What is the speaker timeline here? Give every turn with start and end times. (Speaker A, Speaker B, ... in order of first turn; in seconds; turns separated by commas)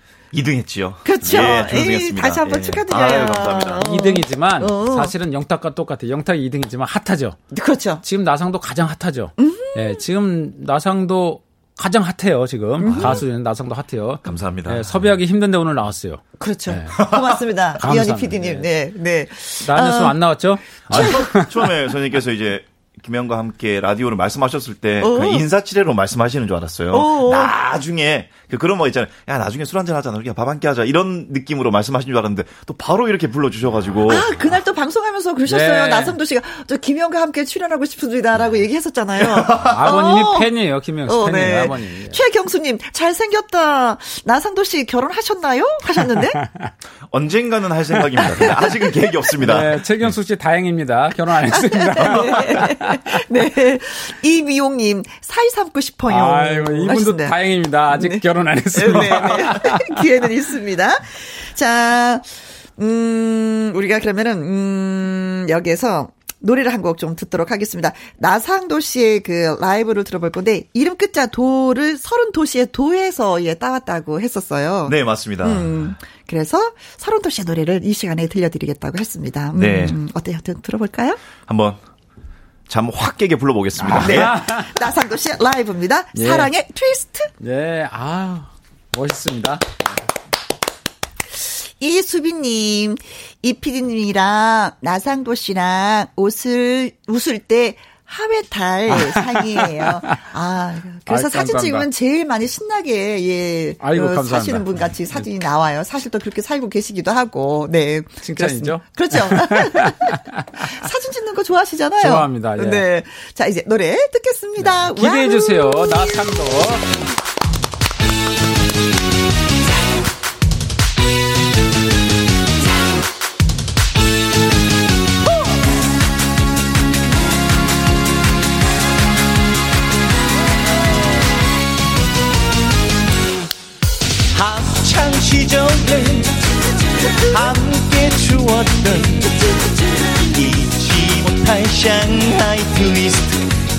Speaker A: 0.3-3.9, Speaker B: 1.0-5.1, Speaker C: 3.8-7.4, Speaker B: 7.5-8.0, Speaker C: 8.0-16.9, Speaker B: 9.4-10.0, Speaker B: 12.8-13.2, Speaker A: 12.9-13.2, Speaker A: 14.2-15.1, Speaker B: 16.4-20.2, Speaker A: 17.0-17.4, Speaker C: 17.8-18.6, Speaker C: 19.6-21.5, Speaker B: 20.8-21.1, Speaker A: 20.9-34.3, Speaker B: 25.0-25.4, Speaker B: 26.9-27.6, Speaker B: 34.1-40.5, Speaker C: 35.5-36.1, Speaker A: 39.2-40.0, Speaker C: 39.7-42.2, Speaker B: 41.0-46.4, Speaker C: 46.3-46.7, Speaker A: 47.1-50.1, Speaker C: 49.4-53.2, Speaker B: 51.5-57.4, Speaker C: 56.1-60.0, Speaker B: 57.9-81.2, Speaker A: 74.8-75.9, Speaker A: 79.5-80.0, Speaker A: 81.5-81.8, Speaker A: 82.7-84.4, Speaker C: 83.8-84.7, Speaker B: 83.9-87.3, Speaker C: 86.1-86.5, Speaker C: 87.4-89.8, Speaker B: 91.4-116.3, Speaker C: 98.9-100.2, Speaker C: 101.1-101.9, Speaker C: 103.8-104.7, Speaker C: 108.2-110.7, Speaker C: 112.0-112.8, Speaker C: 114.8-116.9, Speaker D: 134.3-136.4, Speaker B: 136.9-137.5, Speaker D: 137.1-139.5, Speaker D: 140.2-143.5